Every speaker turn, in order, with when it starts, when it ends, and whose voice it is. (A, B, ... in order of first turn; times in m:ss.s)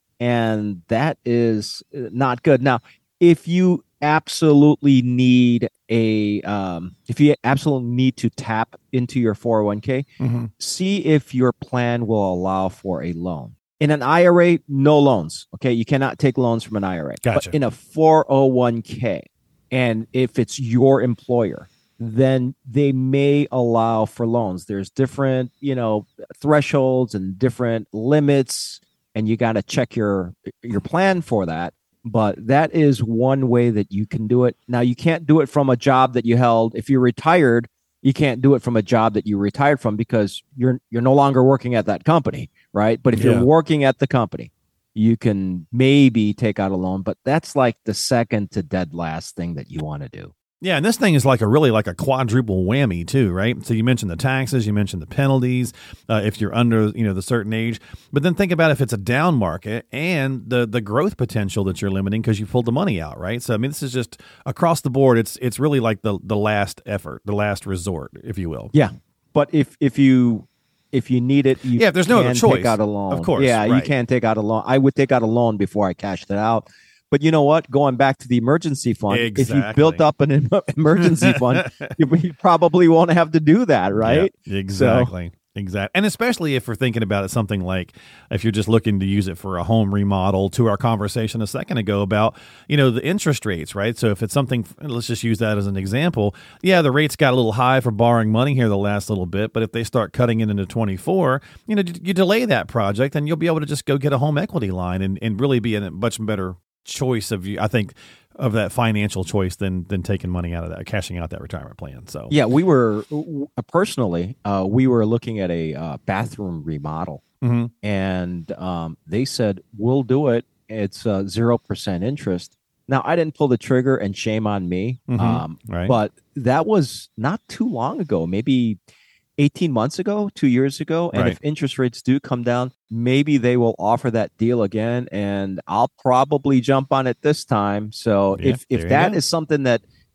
0:00.2-0:10.1 A
0:10.2-0:10.5 B
0:10.6-0:50.3 A
0:17.2-0:17.6 B
0:43.1-0:43.5 B
0:50.6-1:08.7 B
1:08.7-1:25.1 A
1:11.8-1:13.9 B
1:19.1-1:20.0 B
1:21.2-1:21.9 B
1:24.0-1:52.4 B
1:52.3-1:57.2 A
1:57.4-1:57.7 B
1:57.8-2:08.8 A
2:05.1-2:06.0 B
2:09.4-2:19.8 A
2:11.1-2:11.4 B
2:18.3-2:19.2 B